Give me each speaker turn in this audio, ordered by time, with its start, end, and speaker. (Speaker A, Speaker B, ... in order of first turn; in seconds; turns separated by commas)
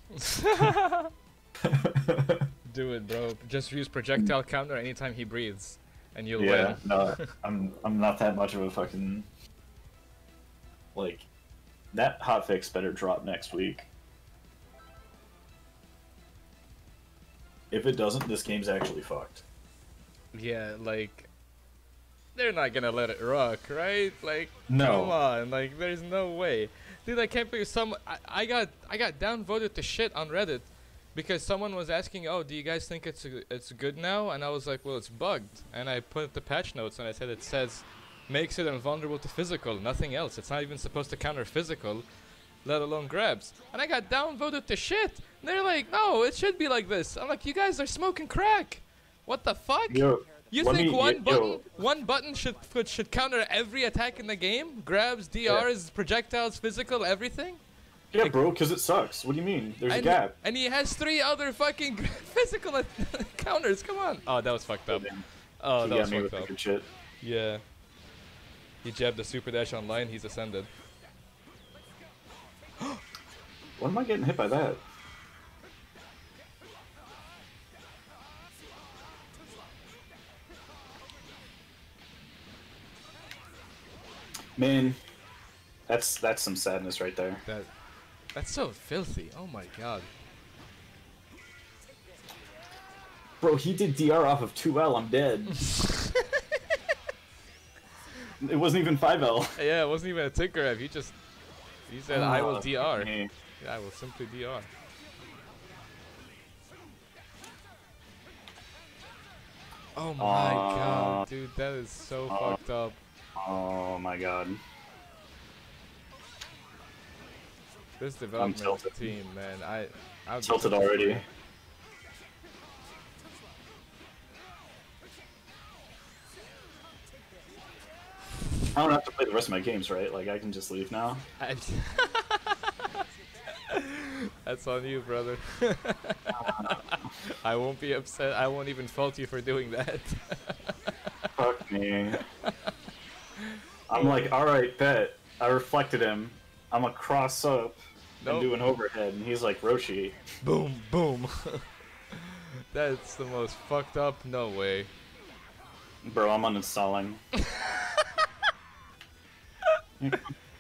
Speaker A: 0.1-1.1, Speaker B: 1.6-2.4, Speaker A: 2.7-7.3, Speaker B: 6.4-9.3, Speaker B: 10.9-11.3, Speaker B: 11.9-13.9, Speaker B: 17.7-19.4, Speaker A: 20.3-21.3, Speaker A: 22.4-42.1, Speaker B: 24.7-25.2, Speaker A: 42.6-57.6, Speaker B: 49.9-51.6, Speaker B: 58.1-60.3, Speaker A: 59.9-65.1, Speaker B: 64.9-65.2, Speaker A: 65.6-66.5, Speaker B: 65.8-66.9, Speaker A: 67.2-67.6, Speaker A: 68.8-70.7, Speaker B: 73.8-74.8, Speaker B: 84.6-85.0, Speaker B: 85.9-87.4, Speaker A: 87.5-87.7, Speaker A: 88.3-90.1, Speaker B: 93.4-95.6, Speaker A: 95.6-96.2, Speaker B: 98.4-99.6, Speaker A: 99.6-101.2, Speaker A: 101.9-104.7, Speaker B: 102.1-103.3, Speaker A: 110.0-113.0, Speaker B: 110.2-111.2, Speaker B: 112.3-112.6, Speaker B: 113.4-114.6, Speaker A: 118.0-121.2, Speaker B: 118.4-119.1, Speaker B: 120.4-121.2, Speaker B: 128.7-131.2, Speaker A: 131.4-132.7, Speaker A: 133.7-140.7, Speaker B: 136.3-136.8, Speaker B: 141.4-142.2, Speaker A: 143.4-144.3, Speaker B: 143.9-150.2, Speaker A: 148.2-148.6, Speaker A: 150.4-154.9, Speaker B: 156.0-157.2, Speaker A: 157.5-158.0, Speaker B: 160.0-160.3